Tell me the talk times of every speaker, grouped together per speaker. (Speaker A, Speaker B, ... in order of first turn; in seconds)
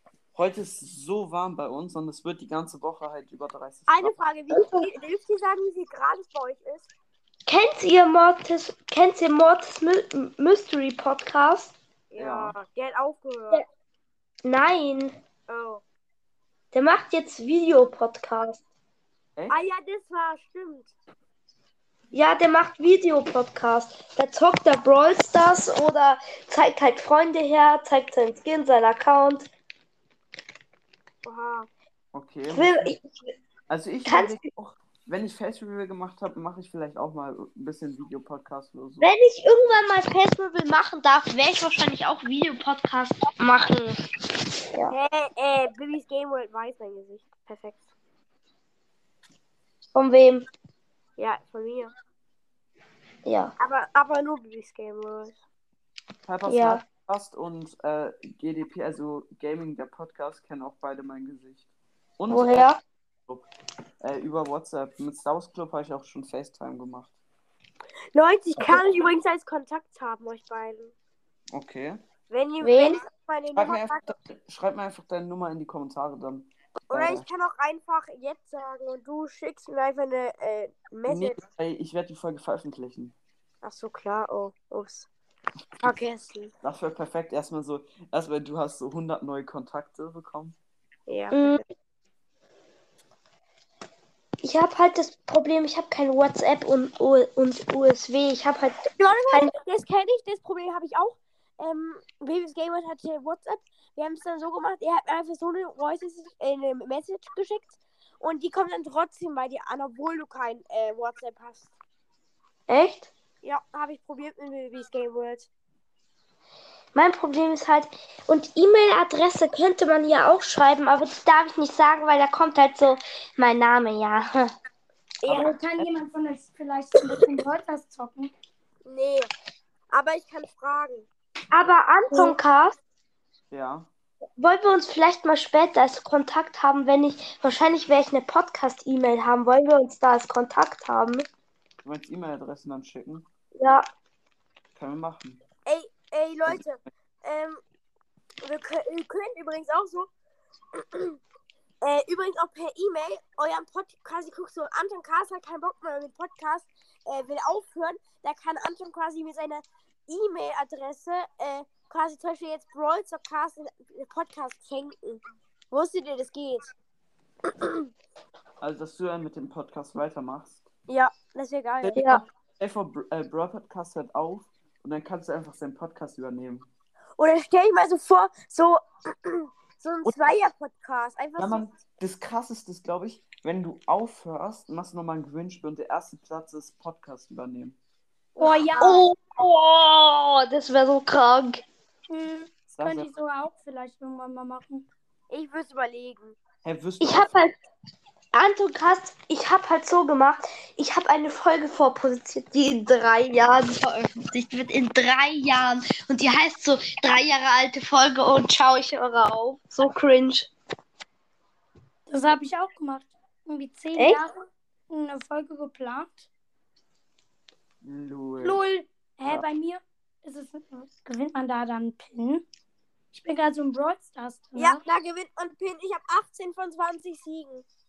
Speaker A: 0.3-4.2, 12.2-12.5, 32.1-32.9, 33.7-39.1, 56.2-62.7, 64.0-67.1, 71.5-72.0, 73.5-77.2, 81.1-83.1, 86.6-90.6, 125.3-125.9, 133.5-133.9, 141.8-143.3, 144.7-145.4, 168.6-170.6, 171.8-176.7, 181.4-187.8, 192.7-193.1, 196.6-197.3, 217.8-218.6
Speaker B: 3.9-6.9, 12.1-13.6, 15.5-15.8, 19.5-20.9, 31.2-31.7, 44.9-47.8, 51.2-51.9, 53.6-55.4, 68.1-70.9, 72.3-74.1, 76.9-81.4, 83.6-85.1, 85.8-86.5, 91.1-91.6, 99.0-111.7, 113.4-115.5, 125.2-125.6, 128.8-129.3, 129.9-131.1, 132.1-132.3, 145.7-147.6, 148.4-150.1, 150.8-151.2, 151.8-166.7, 170.9-172.1, 177.2-181.7, 188.3-189.0, 195.3-196.4, 224.6-227.6
Speaker C: 4.5-4.9, 7.5-11.7, 14.4-15.2, 16.7-18.6, 22.1-29.5, 32.5-33.3, 34.0-34.4, 39.0-44.0, 49.9-50.5, 53.2-53.5, 56.5-56.8, 62.3-62.8, 72.6-73.0, 91.3-91.6, 94.4-99.5, 112.7-113.1, 116.9-124.5, 131.5-132.8, 134.4-141.2, 143.6-143.8, 171.9-172.2, 188.8-191.6, 197.0-197.6, 198.3-210.5, 214.0-214.2
Speaker D: 125.3-128.3, 188.4-188.9, 192.1-194.9, 212.1-214.3, 214.9-216.3, 218.4-222.4, 223.1-224.8